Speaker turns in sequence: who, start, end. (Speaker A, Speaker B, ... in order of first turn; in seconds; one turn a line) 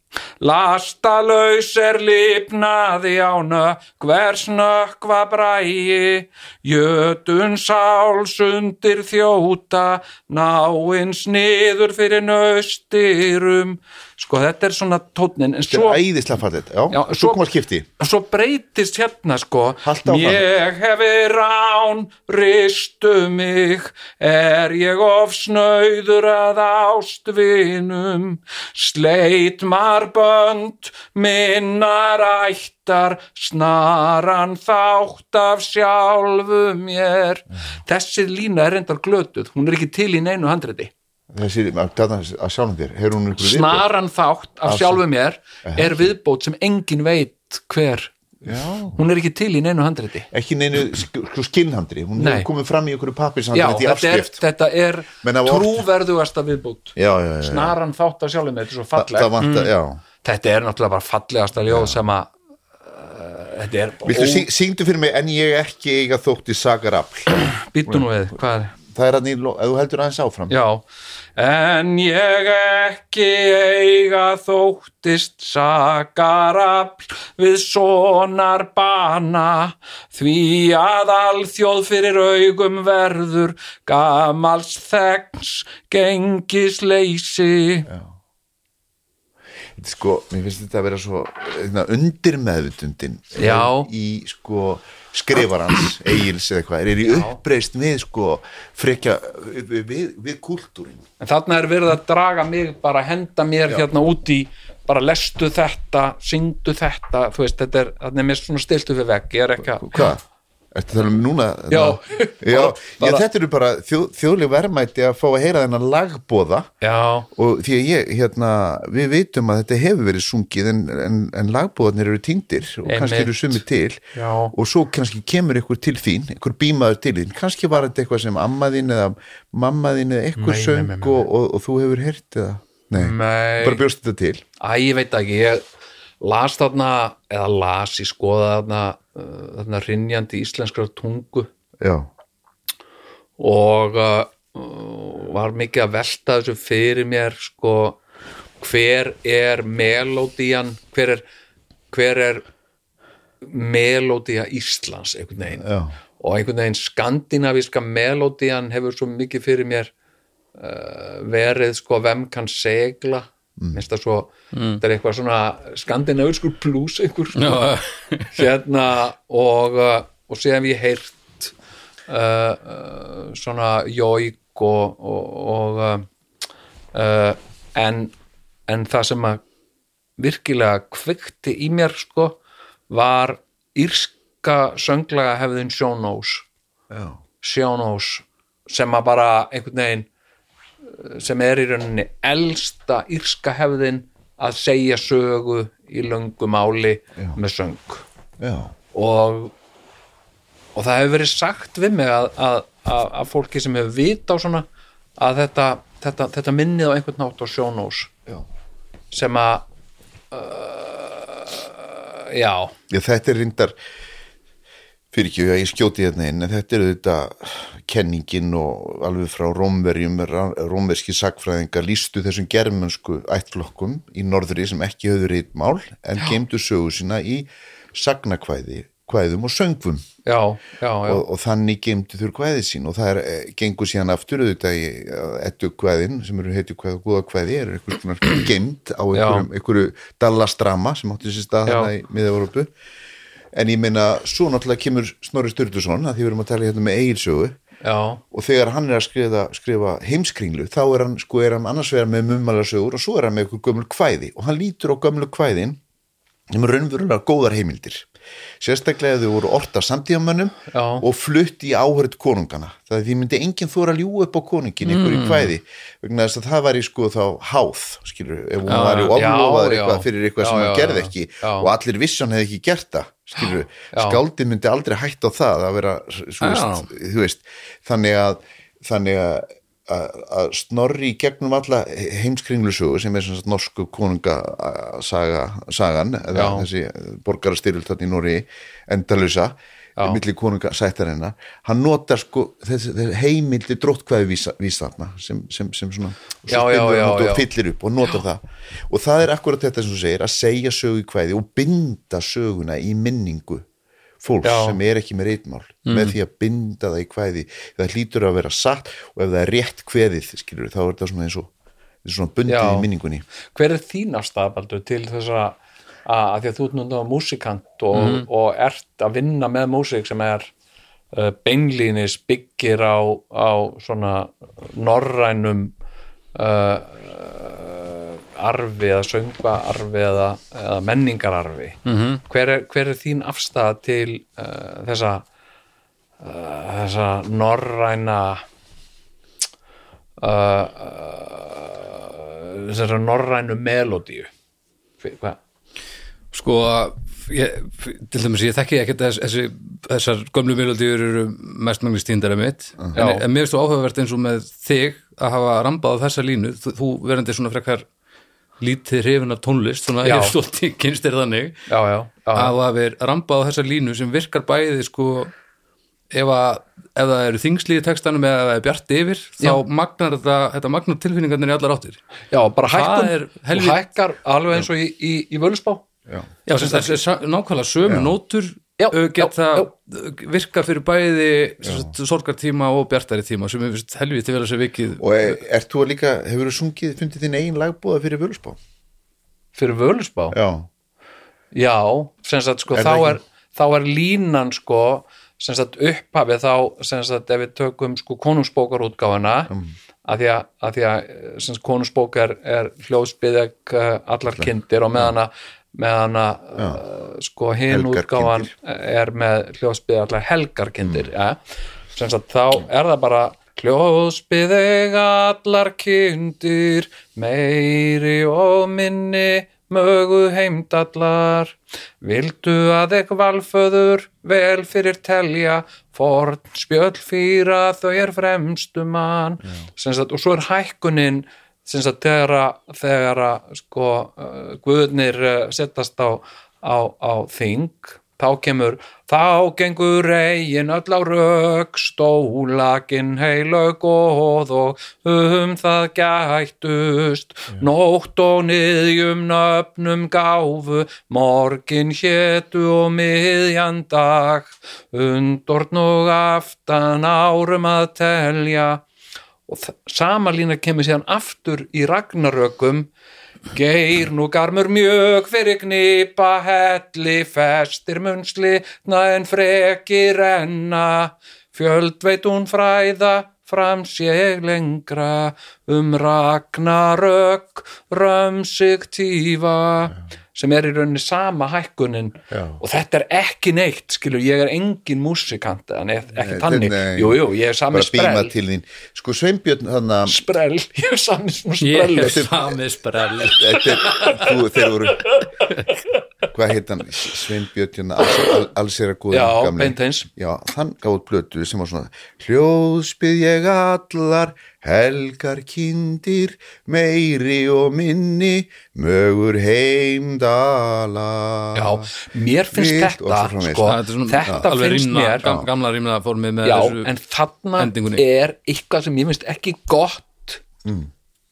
Speaker A: 0.4-16.0
Speaker B: 15.7-17.9
Speaker A: 16.9-17.4
Speaker A: 18.0-40.9
Speaker B: 19.8-20.5
Speaker B: 41.3-43.8
Speaker A: 43.4-48.1
Speaker B: 44.7-45.0
Speaker B: 45.6-46.1
Speaker B: 48.4-49.0
Speaker A: 49.0-50.3
Speaker B: 50.3-54.4
Speaker A: 52.2-52.5
Speaker A: 53.5-59.4
Speaker B: 55.2-55.9
Speaker B: 57.0-57.8
Speaker B: 59.0-60.0
Speaker C: 59.4-59.7
Speaker A: 60.2-62.3
Speaker B: 61.7-62.0
Speaker A: 62.9-64.5
Speaker B: 64.0-68.1
Speaker A: 67.6-68.7
Speaker B: 68.8-70.5
Speaker A: 70.5-70.8
Speaker A: 71.4-87.9
Speaker B: 89.8-101.0
Speaker A: 93.4-93.9
Speaker A: 97.0-97.4
Speaker A: 101.2-110.0
Speaker B: 109.7-110.2
Speaker B: 110.7-116.7
Speaker A: 111.7-113.2
Speaker A: 116.8-117.3
Speaker B: 117.3-134.4
Speaker A: 122.9-123.6
Speaker A: 124.1-124.5
Speaker A: 130.4-131.3
Speaker A: 132.9-133.8
Speaker A: 134.6-135.6
Speaker A: 136.2-141.5
Speaker B: 141.8-142.1
Speaker A: 143.4-148.0
Speaker A: 148.6-151.2
Speaker A: 151.9-152.5
Speaker A: 153.4-155.7
Speaker B: 155.6-155.9
Speaker A: 156.2-159.9
Speaker A: 160.6-167.7
Speaker C: 164.5-164.8
Speaker C: 167.4-168.4
Speaker A: 168.3-171.5
Speaker A: 172.1-176.1
Speaker A: 176.9-178.1
Speaker A: 178.7-179.4
Speaker A: 180.2-182.4
Speaker A: 182.9-186.5
Speaker B: 186.9-187.2
Speaker A: 187.4-190.1
Speaker A: 190.9-198.1
Speaker B: 198.4-198.7
Speaker A: 198.9-199.5
Speaker A: 200.8-204.7
Speaker A: 205.2-208.1
Speaker A: 209.1-209.6
Speaker A: 210.3-212.7
Speaker B: 212.9-213.8
Speaker B: 215.1-230.1
Speaker A: 230.2-231.2
Speaker B: 231.1-242.7
Speaker A: 239.1-239.5
Speaker B: 243.5-247.6
Speaker A: 247.8-248.2
Speaker B: 248.3-255.8
Speaker B: 256.5-258.1
Speaker B: 258.6-303.6
Speaker A: 260.7-261.1
Speaker C: 264.9-265.5
Speaker C: 268.7-269.2
Speaker A: 269.1-271.7
Speaker A: 273.9-274.2
Speaker C: 276.4-276.9
Speaker A: 286.3-286.7
Speaker A: 296.5-297.5
Speaker B: 304.2-311.5
Speaker A: 304.4-304.8
Speaker C: 305.9-306.1
Speaker B: 312.1-313.2
Speaker A: 312.5-312.9
Speaker A: 313.5-320.5
Speaker C: 317.9-318.3
Speaker A: 321.1-325.7
Speaker A: 326.4-331.8
Speaker C: 331.9-332.2
Speaker A: 332.3-335.3
Speaker A: 336.2-338.4
Speaker A: 340.2-344.3
Speaker A: 345.0-345.4
Speaker C: 346.3-357.9
Speaker A: 352.9-353.2
Speaker C: 358.6-361.6
Speaker A: 360.0-360.4
Speaker A: 361.7-362.5
Speaker C: 362.3-365.3
Speaker C: 366.1-372.0
Speaker A: 372.3-375.9
Speaker C: 372.7-373.8
Speaker C: 376.5-385.4
Speaker A: 376.5-376.9
Speaker B: 377.9-378.1
Speaker A: 378.8-379.7
Speaker B: 381.6-381.9
Speaker B: 385.0-388.6
Speaker A: 389.6-390.4
Speaker B: 390.3-390.7
Speaker A: 391.5-399.5
Speaker B: 392.7-393.2
Speaker A: 400.1-411.4
Speaker B: 404.4-405.1
Speaker B: 407.7-408.5
Speaker A: 411.9-458.8
Speaker A: 459.5-462.9
Speaker A: 463.5-488.3
Speaker B: 482.3-482.6
Speaker B: 486.2-490.2
Speaker A: 490.1-492.3
Speaker C: 491.6-494.1
Speaker B: 492.0-492.6
Speaker B: 493.2-495.1
Speaker B: 496.3-511.9
Speaker A: 499.1-500.1
Speaker A: 511.5-515.3
Speaker B: 512.5-513.8
Speaker C: 513.6-516.9
Speaker B: 515.2-515.5
Speaker A: 516.4-520.4
Speaker C: 517.6-518.0
Speaker B: 520.6-520.9